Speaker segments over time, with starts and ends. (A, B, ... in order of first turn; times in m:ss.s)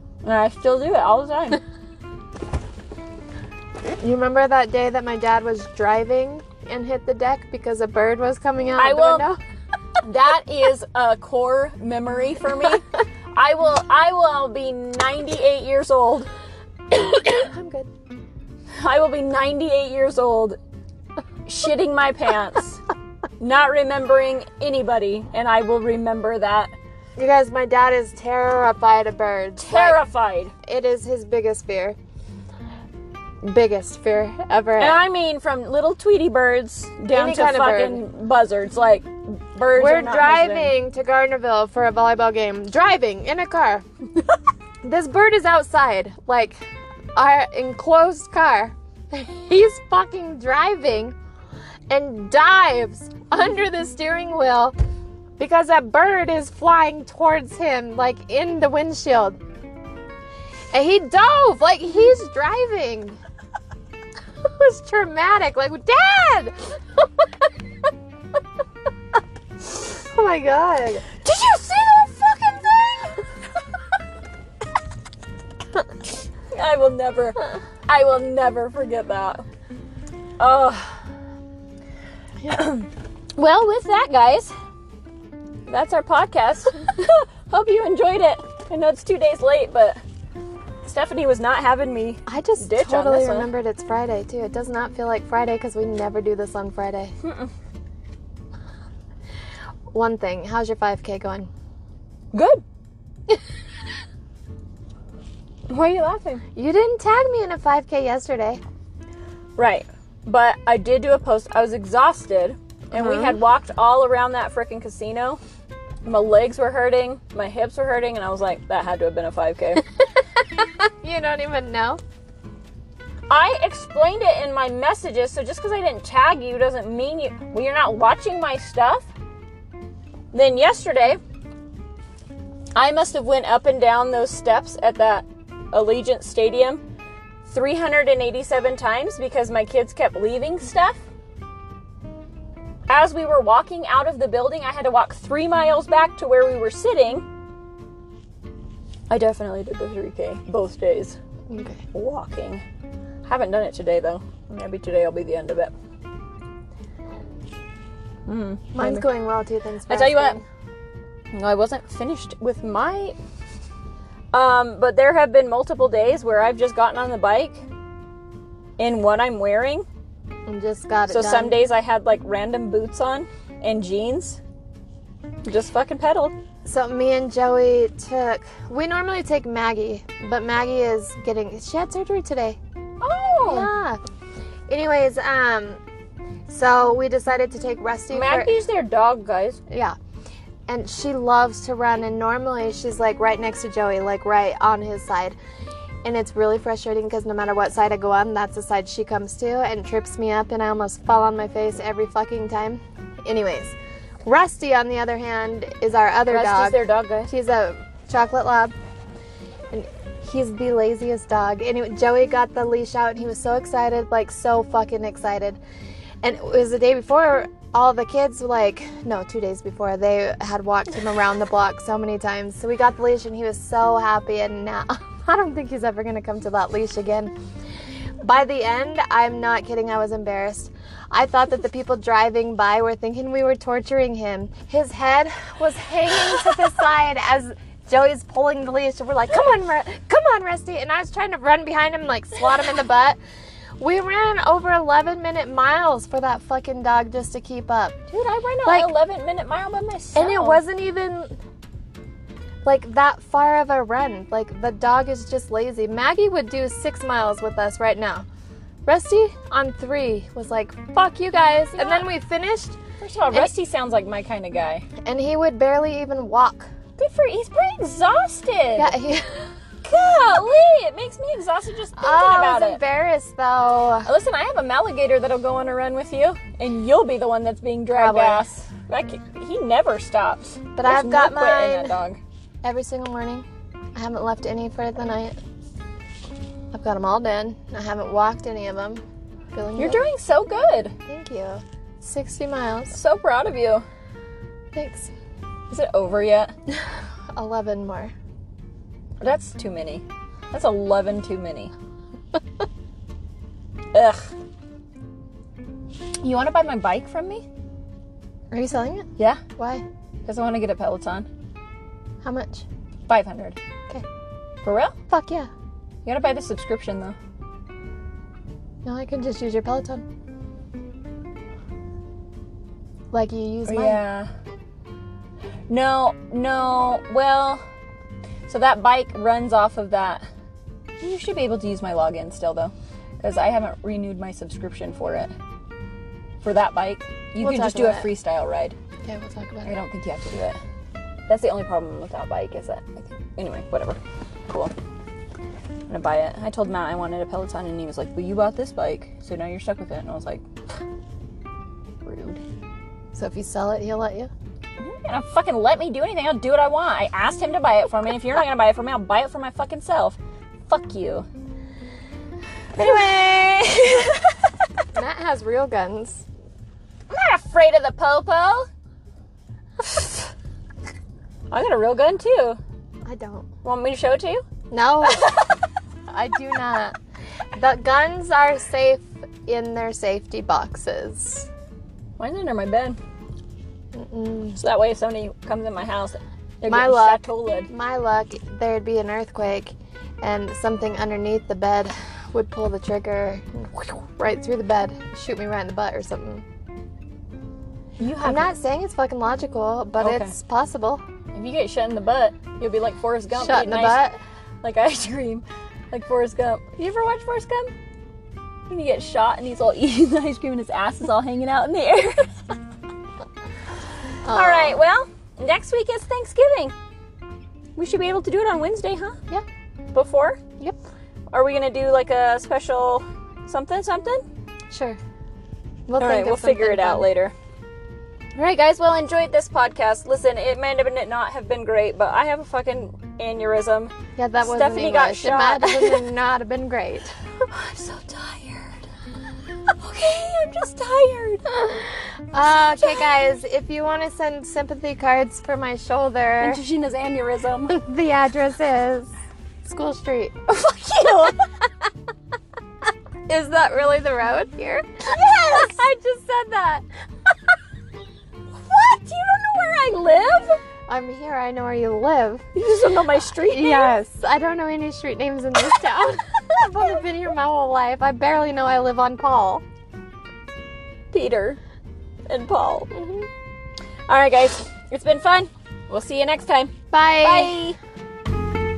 0:00.2-0:01.6 A
0:04.0-0:09.4 B
0:08.8-0:09.3 A
0:10.0-0:16.3 A
0:16.9-0:17.9 B
0:18.8-0:20.6 A
0:21.4-0:22.8 A
0:23.4-0:26.7 A
0:27.2-0:30.0 B
0:29.6-0:30.5 A
0:30.6-0:32.0 B
0:33.4-0:35.0 B
0:34.8-0:40.7 A
0:37.1-0:38.0 B
0:39.7-0:43.8 B
0:44.8-0:46.6 B
0:47.1-0:51.1 B
0:51.9-0:54.7 B
0:55.4-0:59.4 B
1:00.7-1:03.2 B
1:04.4-1:07.5 B
1:09.9-1:11.1 B
1:11.2-1:13.2 A
1:16.5-1:19.4 A
1:20.4-1:21.0 A
1:22.5-1:24.5 A
1:25.7-1:30.0 A
1:30.8-1:33.5 A
1:32.2-1:37.1 B
1:37.2-1:37.5 A
1:39.9-1:41.5 B
1:42.3-1:42.6 A
1:45.7-1:46.4 A
1:46.5-1:48.6 B
1:49.6-1:55.4 A
1:52.9-1:53.4 B
1:56.0-1:59.8 A
2:00.6-2:02.0 B
2:03.3-2:09.0 A
2:10.3-2:11.2 A
2:12.8-2:16.8 A
2:17.4-2:21.0 A
2:22.9-2:27.2 A
2:29.1-2:31.2 A
2:31.5-2:31.8 B
2:31.9-2:32.6 A
2:33.2-2:35.7 A
2:38.3-2:39.0 A
2:38.7-2:40.4 B
2:39.9-2:40.4 A
2:41.3-2:43.2 A
2:44.3-2:47.6 A
2:48.8-2:49.8 A
2:50.4-2:51.6 B
2:51.1-2:54.4 A
2:55.4-2:56.3 A
2:56.6-3:02.6 B
3:03.0-3:03.7 A
3:03.4-3:04.0 B
3:04.7-3:05.8 B
3:06.5-3:08.5 B
3:08.1-3:09.6 A
3:09.7-3:10.0 B
3:10.7-3:15.4 B
3:16.0-3:28.7 B
3:26.3-3:27.3 A
3:29.7-3:35.6 B
3:36.2-3:47.3 B
3:48.2-4:03.2 B
4:03.8-4:08.0 B
4:08.1-4:10.6 A
4:08.6-4:08.9 B
4:10.1-4:11.4 B
4:12.6-4:18.2 B
4:18.8-4:22.8 B
4:21.8-4:22.0 A
4:23.0-4:24.8 A
4:25.0-4:26.7 B
4:27.0-4:28.9 A
4:28.8-4:29.5 B
4:29.8-4:32.8 A
4:32.0-4:34.1 B
4:34.0-4:42.2 A
4:37.9-4:38.4 B
4:40.7-4:42.0 B
4:42.6-4:45.4 B
4:46.7-4:50.0 B
4:49.8-4:50.9 A
4:51.0-4:53.0 B
4:52.9-4:53.8 A
4:54.7-4:55.1 B
4:55.7-4:56.5 A
4:57.3-4:58.1 B
4:59.2-5:01.7 A
5:03.9-5:04.3 A
5:06.2-5:07.4 A
5:08.5-5:09.8 B
5:09.2-5:09.4 A
5:10.2-5:11.3 A
5:12.2-5:12.6 B
5:13.1-5:13.6 A
5:14.6-5:15.0 A
5:15.1-5:15.5 B
5:16.0-5:17.2 A
5:18.8-5:20.0 B
5:23.1-5:24.0 B
5:23.6-5:24.3 A
5:25.7-5:27.6 A
5:28.5-5:30.2 A
5:31.0-5:35.3 A
5:36.4-5:38.7 A
5:37.4-5:38.1 B
5:39.0-5:39.8 B
5:39.6-5:40.6 A
5:41.3-5:44.7 A
5:45.9-5:50.4 A
5:52.0-5:52.4 A
5:53.1-5:54.3 B
5:54.8-6:01.2 A
6:02.8-6:04.3 A
6:04.9-6:06.2 B
6:07.1-6:08.7 A
6:11.5-6:12.6 A
6:13.0-6:13.5 B
6:13.6-6:14.4 A
6:14.7-6:15.3 B
6:15.1-6:15.5 A
6:16.1-6:17.0 B
6:17.5-6:21.5 B
6:22.2-6:23.0 A
6:23.9-6:24.6 B
6:24.5-6:27.7 A
6:26.6-6:36.4 B
6:38.0-6:38.5 A
6:38.2-6:41.0 B
6:40.0-6:40.3 A
6:41.3-6:44.1 A
6:43.3-6:44.2 B
6:44.6-6:47.7 A
6:48.7-6:52.3 A
6:54.2-6:54.8 B
6:54.3-6:56.7 A
6:57.8-6:59.2 A
6:59.9-7:00.4 A
7:01.3-7:04.2 A
7:04.7-7:05.0 B
7:05.9-7:07.1 B
7:06.0-7:07.3 A
7:08.4-7:16.1 A
7:14.2-7:17.1 B
7:17.4-7:18.8 A
7:19.8-7:21.5 A
7:21.6-7:26.6 B
7:26.4-7:27.8 A
7:27.7-7:29.1 B
7:29.6-7:30.3 B
7:30.5-7:31.5 A
7:33.3-7:36.8 B
7:35.0-7:35.8 A
7:38.5-7:40.6 A
7:40.9-7:42.4 B
7:42.5-7:43.9 A
7:43.4-7:49.6 B
7:51.1-7:51.6 A
7:52.3-7:52.9 A
7:52.9-7:53.3 B
7:54.1-7:57.8 A
7:56.9-7:57.6 B